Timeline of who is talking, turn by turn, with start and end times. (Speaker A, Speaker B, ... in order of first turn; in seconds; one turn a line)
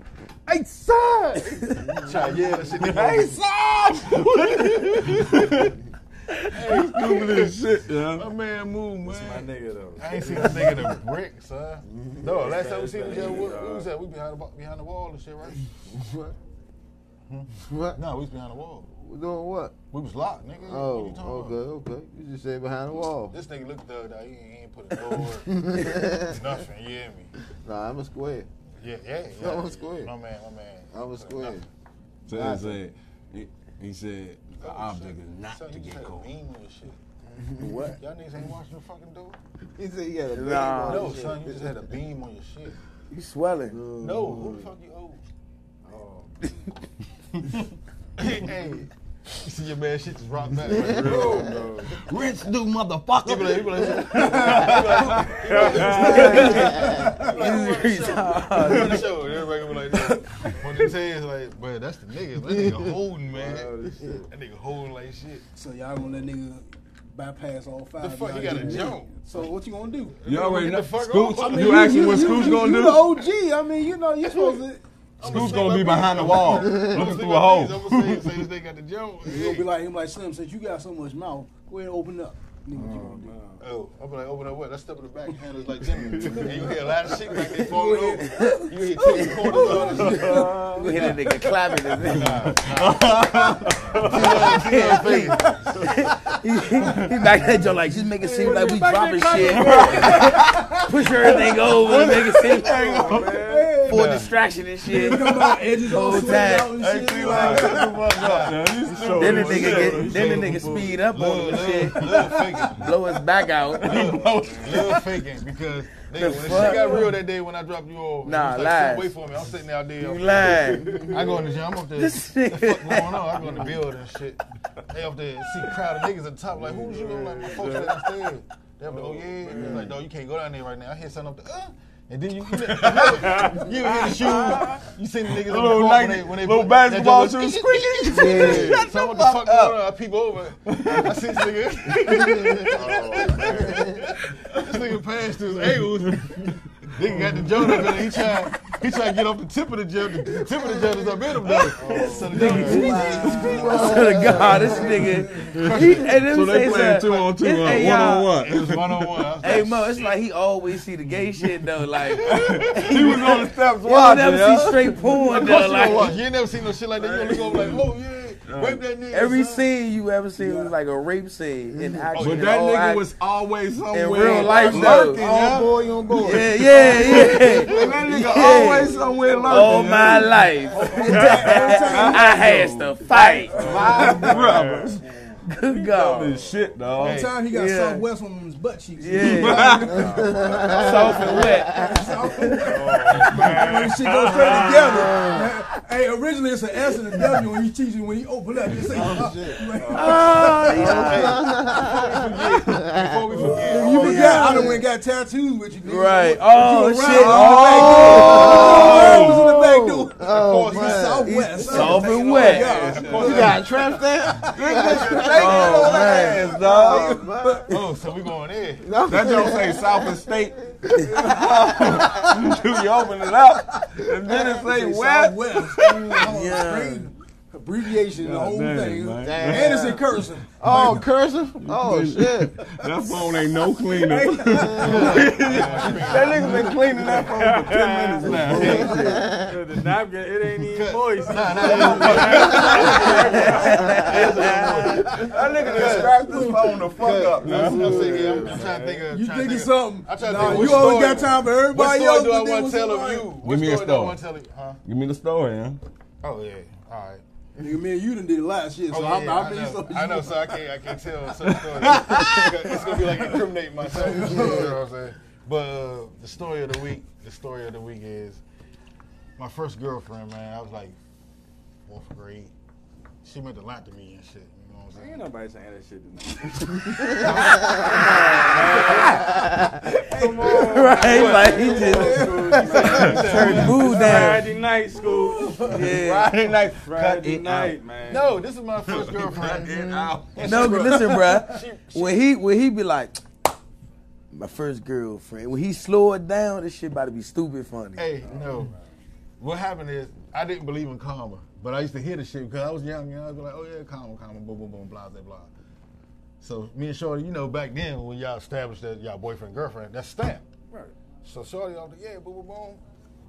Speaker A: 1.8-2.2
Speaker B: 1.9-3.4
Speaker C: 2.7-5.8
Speaker B: 4.2-5.4
Speaker B: 6.5-7.6
Speaker C: 6.6-8.3
Speaker B: 8.1-15.6
Speaker D: 9.0-10.9
Speaker A: 11.9-12.2
Speaker D: 12.2-13.9
Speaker A: 15.9-16.3
Speaker B: 17.3-18.9
Speaker A: 17.6-18.0
Speaker A: 19.0-19.8
Speaker B: 19.9-21.6
Speaker A: 20.6-23.4
Speaker B: 23.3-27.3
Speaker A: 25.2-26.4
Speaker A: 27.6-28.5
Speaker B: 28.8-31.6
Speaker A: 29.4-30.1
Speaker A: 30.9-31.6
Speaker C: 32.3-36.3
Speaker A: 32.3-32.8
Speaker B: 34.6-37.0
Speaker A: 37.4-37.9
Speaker E: 37.6-38.0
Speaker B: 38.0-39.4
Speaker A: 39.8-41.9
Speaker E: 40.3-41.3
Speaker B: 40.9-42.8
Speaker E: 43.1-43.8
Speaker A: 43.7-44.7
Speaker B: 44.0-45.2
Speaker D: 45.9-46.3
Speaker B: 48.2-52.5
Speaker D: 50.7-52.0
Speaker A: 50.9-51.5
Speaker C: 52.7-53.5
Speaker B: 53.1-65.4
Speaker F: 54.2-57.3
Speaker D: 54.2-57.0
Speaker E: 56.1-59.3
Speaker E: 59.9-60.2
Speaker D: 63.3-64.2
Speaker F: 65.5-70.2
Speaker B: 68.0-69.4
Speaker B: 70.2-72.6
Speaker C: 70.2-73.2
Speaker F: 71.3-74.8
Speaker B: 74.2-74.6
Speaker B: 75.2-79.7
Speaker C: 75.2-78.5
Speaker F: 79.2-83.4
Speaker D: 82.8-83.6
Speaker B: 83.6-90.5
Speaker F: 86.1-91.0
Speaker D: 86.1-86.5
Speaker E: 88.2-88.8
Speaker D: 89.6-91.8
Speaker E: 90.3-92.6
Speaker B: 92.0-95.9
Speaker C: 92.2-94.2
Speaker D: 94.0-94.6
Speaker E: 94.1-102.9
Speaker D: 95.4-95.8
Speaker F: 97.9-101.6
Speaker D: 98.2-100.4
Speaker C: 99.5-100.6
Speaker C: 101.7-103.5
Speaker D: 102.7-103.9
Speaker F: 103.1-104.2
Speaker E: 103.8-106.8
Speaker B: 103.9-104.3
Speaker F: 104.8-108.2
Speaker C: 106.7-110.6
Speaker B: 107.3-108.9
Speaker D: 108.7-111.0
Speaker E: 109.0-114.2
Speaker B: 109.8-113.0
Speaker F: 112.1-112.7
Speaker B: 113.8-154.6
Speaker C: 113.8-115.0
Speaker D: 114.2-115.0
Speaker E: 116.1-117.2
Speaker E: 118.2-119.2
Speaker E: 120.0-121.1
Speaker D: 120.8-121.3
Speaker E: 122.0-123.7
Speaker D: 123.4-123.7
Speaker D: 126.5-128.1
Speaker D: 128.8-129.9
Speaker C: 132.5-133.3
Speaker D: 133.1-134.9
Speaker C: 135.3-139.9
Speaker A: 138.1-138.9
Speaker C: 140.6-141.2
Speaker A: 142.0-144.0
Speaker D: 142.7-143.8
Speaker C: 146.0-146.3
Speaker C: 147.6-148.0
Speaker D: 151.7-152.6
Speaker F: 151.8-153.8
Speaker A: 151.8-155.2
Speaker E: 152.1-158.4
Speaker F: 154.3-155.5
Speaker C: 155.5-159.3
Speaker B: 155.5-156.2
Speaker B: 158.4-160.1
Speaker E: 159.4-166.2
Speaker B: 162.0-163.2
Speaker C: 162.2-165.2
Speaker B: 165.2-169.6
Speaker F: 167.0-167.8
Speaker C: 168.4-168.8
Speaker E: 169.1-173.1
Speaker F: 170.4-170.7
Speaker A: 171.7-172.2
Speaker B: 172.1-172.6
Speaker C: 172.2-180.4
Speaker E: 173.9-175.3
Speaker B: 174.4-174.7
Speaker A: 174.7-177.7
Speaker E: 176.2-184.1
Speaker F: 178.6-180.1
Speaker F: 180.6-184.4
Speaker D: 180.9-181.9
Speaker C: 181.8-182.9
Speaker D: 183.5-184.9
Speaker A: 183.6-184.6
Speaker C: 183.6-185.1
Speaker E: 185.4-186.5
Speaker C: 185.8-187.4
Speaker F: 187.0-201.0
Speaker B: 187.0-187.3
Speaker E: 187.4-188.1
Speaker E: 189.0-189.9
Speaker C: 189.2-190.1
Speaker D: 189.8-190.9
Speaker A: 189.9-192.3
Speaker E: 190.7-192.6
Speaker D: 192.6-195.1
Speaker A: 194.9-195.5
Speaker A: 198.8-199.8
Speaker D: 199.7-200.7
Speaker E: 199.9-201.5
Speaker A: 200.7-204.8
Speaker B: 200.9-204.6
Speaker F: 203.3-215.2
Speaker E: 204.0-204.8
Speaker E: 205.8-209.3
Speaker C: 207.1-209.6
Speaker A: 207.9-211.5
Speaker B: 210.3-213.6
Speaker E: 211.3-212.9
Speaker C: 212.3-213.6
Speaker A: 213.0-217.8
Speaker C: 214.4-217.3
Speaker E: 215.3-216.6
Speaker F: 216.6-217.8
Speaker B: 217.7-219.0
Speaker A: 218.8-222.6
Speaker C: 219.0-220.6
Speaker E: 221.0-221.3
Speaker C: 221.1-226.3
Speaker F: 221.8-222.1
Speaker E: 224.3-224.6
Speaker F: 224.6-230.9
Speaker E: 226.2-227.1
Speaker C: 228.2-230.0
Speaker A: 229.2-230.0
Speaker A: 230.6-233.2
Speaker C: 230.7-231.0
Speaker C: 231.6-239.2
Speaker F: 234.0-236.2
Speaker A: 234.3-235.3
Speaker B: 234.8-236.7
Speaker D: 235.3-236.3
Speaker A: 236.4-236.6
Speaker D: 237.1-238.6
Speaker A: 238.3-239.5
Speaker B: 238.5-239.2
Speaker D: 239.3-244.3
Speaker B: 240.6-246.2
Speaker F: 241.4-243.2
Speaker A: 242.3-244.6
Speaker C: 242.4-243.3
Speaker E: 243.4-245.2
Speaker C: 245.2-248.0
Speaker A: 245.2-248.6
Speaker F: 245.8-253.4
Speaker B: 247.4-254.8
Speaker D: 247.8-249.0
Speaker D: 250.4-250.9
Speaker C: 253.4-254.2
Speaker C: 254.8-255.8
Speaker B: 256.2-257.2
Speaker F: 257.6-260.7
Speaker B: 258.9-268.4
Speaker C: 261.4-263.4
Speaker F: 263.8-264.8
Speaker B: 269.4-270.9
Speaker B: 271.9-272.5
Speaker B: 273.2-275.2
Speaker D: 274.9-279.3
Speaker B: 277.1-279.1
Speaker E: 278.0-279.9
Speaker D: 280.1-285.9
Speaker F: 280.1-283.1
Speaker E: 280.5-284.5
Speaker B: 282.6-285.1
Speaker C: 282.9-283.7
Speaker F: 285.1-285.7
Speaker E: 285.7-286.4
Speaker C: 285.8-287.8
Speaker D: 286.6-288.4
Speaker B: 288.0-289.8
Speaker C: 288.9-291.3
Speaker A: 289.7-290.1
Speaker E: 290.4-293.2
Speaker B: 290.4-292.2
Speaker E: 294.3-298.2
Speaker B: 298.0-298.7
Speaker D: 298.2-298.8
Speaker B: 299.4-305.5
Speaker B: 306.4-310.4
Speaker B: 311.2-312.8